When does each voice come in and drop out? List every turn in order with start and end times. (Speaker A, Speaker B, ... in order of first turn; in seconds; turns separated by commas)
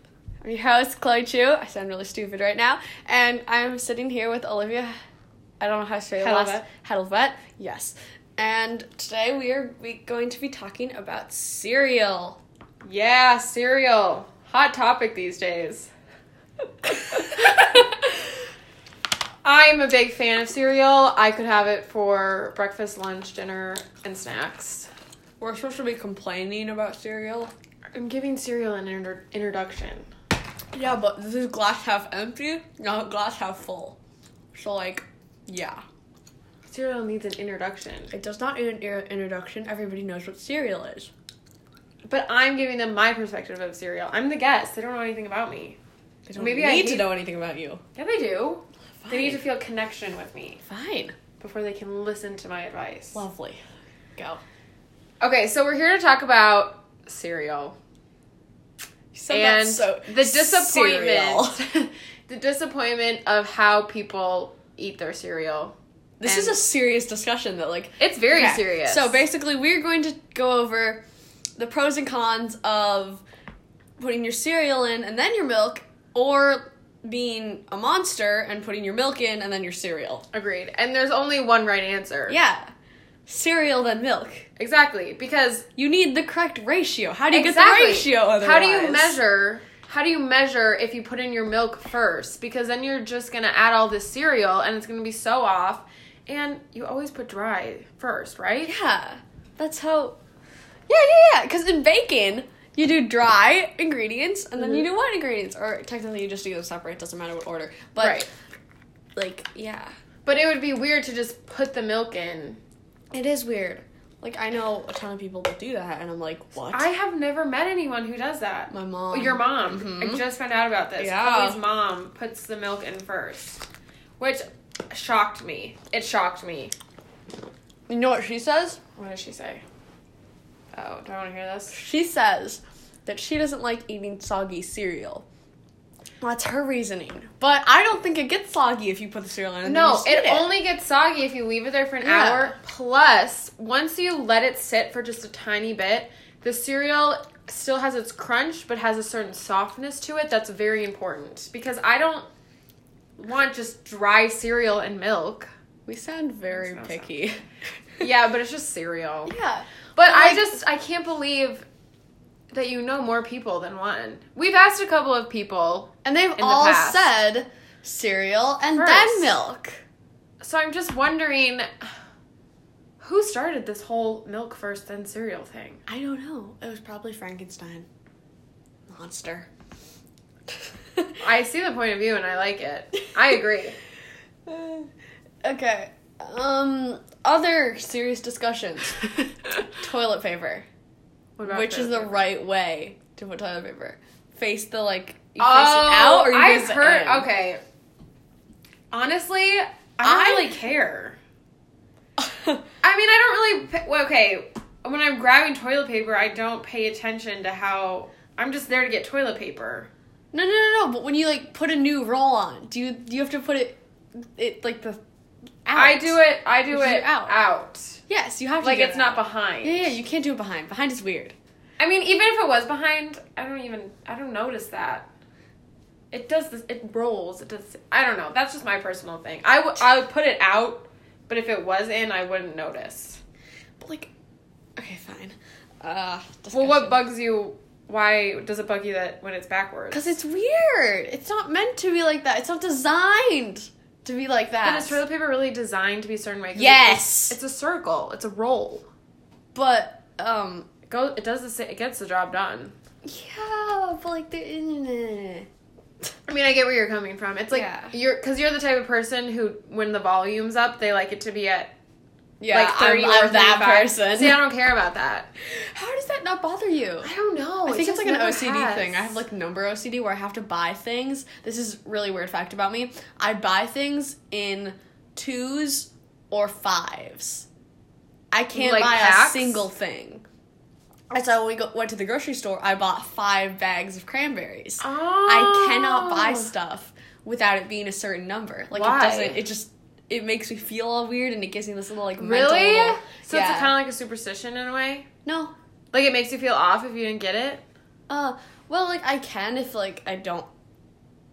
Speaker A: 0.4-5.0, Speaker A: 5.6-12.4, Speaker B: 6.2-6.7, Speaker B: 12.8-15.9, Speaker B: 17.0-18.1, Speaker B: 19.4-24.9, Speaker A: 25.4-27.5, Speaker B: 27.9-30.1, Speaker A: 30.7-34.0, Speaker A: 34.5-35.8, Speaker B: 36.7-38.1, Speaker A: 38.1-41.1, Speaker B: 42.0-45.8, Speaker A: 46.3-47.8, Speaker B: 46.3-47.1, Speaker B: 48.0-50.6, Speaker A: 49.0-49.4, Speaker A: 50.6-51.1, Speaker B: 51.4-53.2, Speaker A: 53.1-53.6, Speaker A: 54.1-54.4, Speaker B: 55.2-57.8, Speaker A: 59.1-61.5, Speaker B: 59.3-66.6, Speaker A: 66.2-71.0, Speaker B: 68.0-69.2, Speaker A: 71.6-73.2, Speaker A: 74.0-80.2, Speaker B: 80.3-82.4, Speaker A: 82.3-82.7, Speaker A: 83.3-84.5, Speaker B: 84.6-85.7, Speaker A: 85.8-89.2, Speaker B: 87.3-98.7, Speaker A: 98.7-100.2, Speaker A: 100.9-108.3, Speaker B: 108.0-108.3, Speaker A: 109.2-109.9, Speaker B: 110.2-112.6, Speaker A: 113.1-116.9, Speaker B: 116.5-123.6, Speaker A: 118.7-120.2, Speaker A: 121.0-121.6, Speaker B: 124.2-126.7, Speaker A: 127.9-128.8, Speaker B: 128.9-129.6, Speaker B: 130.7-131.8, Speaker A: 131.7-135.2, Speaker A: 136.2-140.5, Speaker B: 139.6-152.3, Speaker A: 142.0-142.5, Speaker B: 153.2-155.5, Speaker A: 155.9-157.4, Speaker B: 156.5-157.1, Speaker B: 158.0-159.3, Speaker A: 159.3-160.6, Speaker B: 159.9-161.7, Speaker B: 162.5-167.1, Speaker A: 166.0-169.8, Speaker B: 168.7-169.3, Speaker B: 170.4-171.9, Speaker B: 173.0-175.8, Speaker A: 175.9-177.8, Speaker A: 178.9-179.5, Speaker A: 180.5-181.1, Speaker B: 181.2-183.8, Speaker A: 184.4-184.9, Speaker A: 185.4-190.7, Speaker B: 191.4-192.2, Speaker A: 191.5-197.3, Speaker B: 195.3-197.6, Speaker B: 198.9-201.2, Speaker A: 200.0-200.5, Speaker A: 202.2-202.6, Speaker B: 202.8-209.9, Speaker A: 210.3-215.0, Speaker A: 215.6-217.3, Speaker B: 215.7-218.0, Speaker A: 218.1-221.3, Speaker B: 218.6-219.9, Speaker B: 221.8-225.1, Speaker B: 226.1-233.2, Speaker A: 233.8-234.1, Speaker A: 234.8-237.0, Speaker B: 236.5-240.0, Speaker A: 239.9-245.0, Speaker B: 244.6-248.9, Speaker A: 246.5-247.4, Speaker A: 249.5-250.7, Speaker B: 250.9-252.7, Speaker A: 253.0-255.5, Speaker B: 256.3-261.7, Speaker A: 257.5-257.9, Speaker A: 262.4-264.4, Speaker B: 262.5-265.3, Speaker A: 265.4-267.1, Speaker B: 267.0-269.2, Speaker A: 267.6-277.5, Speaker A: 278.3-280.2, Speaker B: 278.5-279.6, Speaker A: 281.1-293.7, Speaker B: 284.8-286.5, Speaker B: 288.7-289.4, Speaker B: 292.2-295.1, Speaker A: 295.2-295.5, Speaker B: 295.9-297.6, Speaker A: 298.1-300.5